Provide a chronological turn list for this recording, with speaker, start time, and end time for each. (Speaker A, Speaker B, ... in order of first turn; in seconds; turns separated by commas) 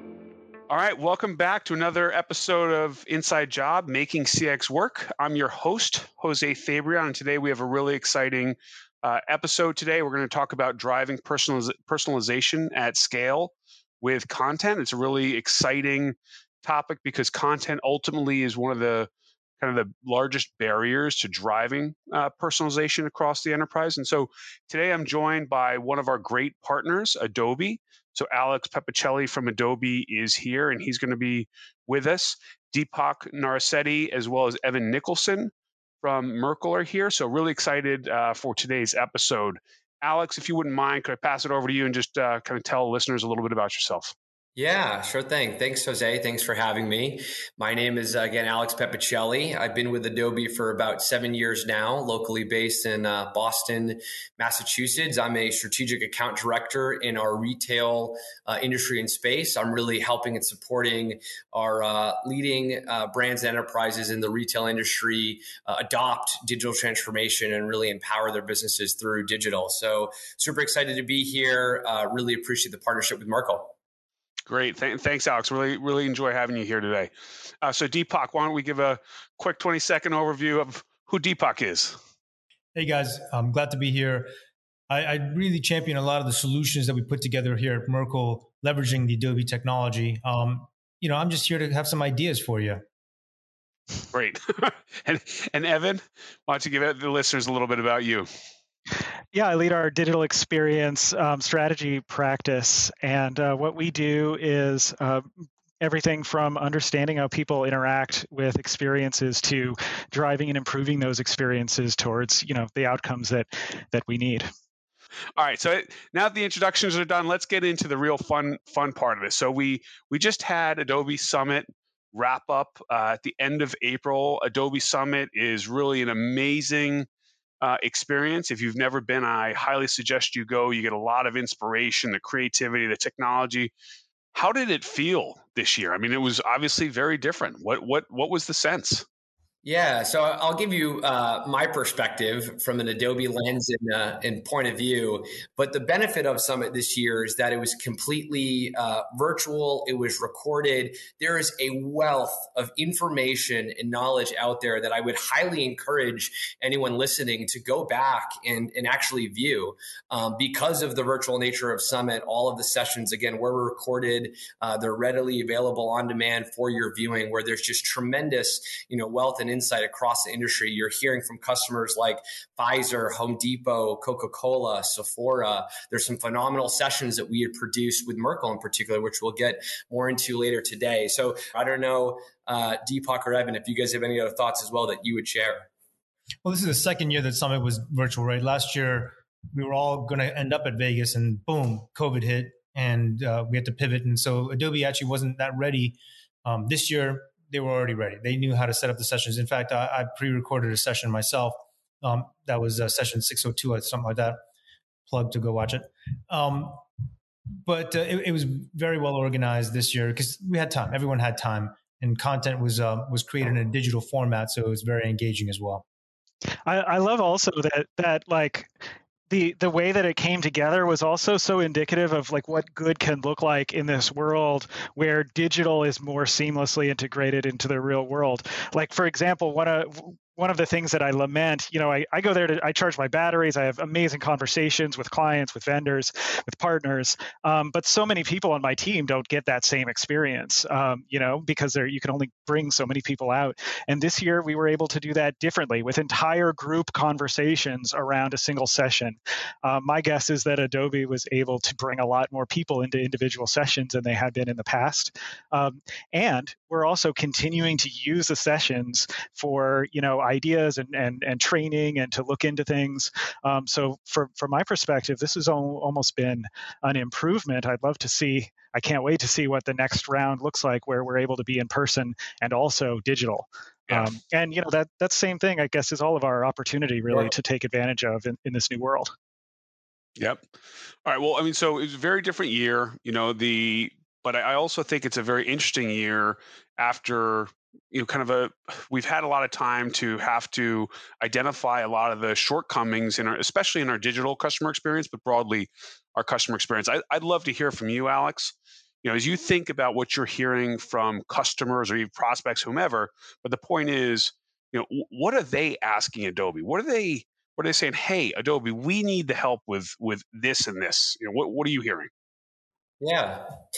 Speaker A: 0.7-19.1, Speaker A: 19.6-35.5, Speaker A: 36.0-44.1, Speaker B: 44.5-73.7, Speaker A: 74.5-77.1, Speaker A: 77.6-82.0, Speaker C: 82.7-84.3, Speaker C: 84.9-92.8, Speaker A: 94.1-98.3, Speaker D: 99.3-105.2, Speaker D: 105.8-114.5, Speaker A: 115.4-127.1, Speaker A: 127.6-133.7, Speaker A: 134.3-139.0, Speaker B: 139.6-185.7, Speaker C: 186.4-204.4, Speaker C: 205.1-206.8, Speaker C: 207.6-215.8, Speaker D: 216.7-218.7, Speaker D: 219.3-279.1, Speaker A: 280.2-280.4, Speaker A: 281.0-312.1, Speaker B: 313.0-313.5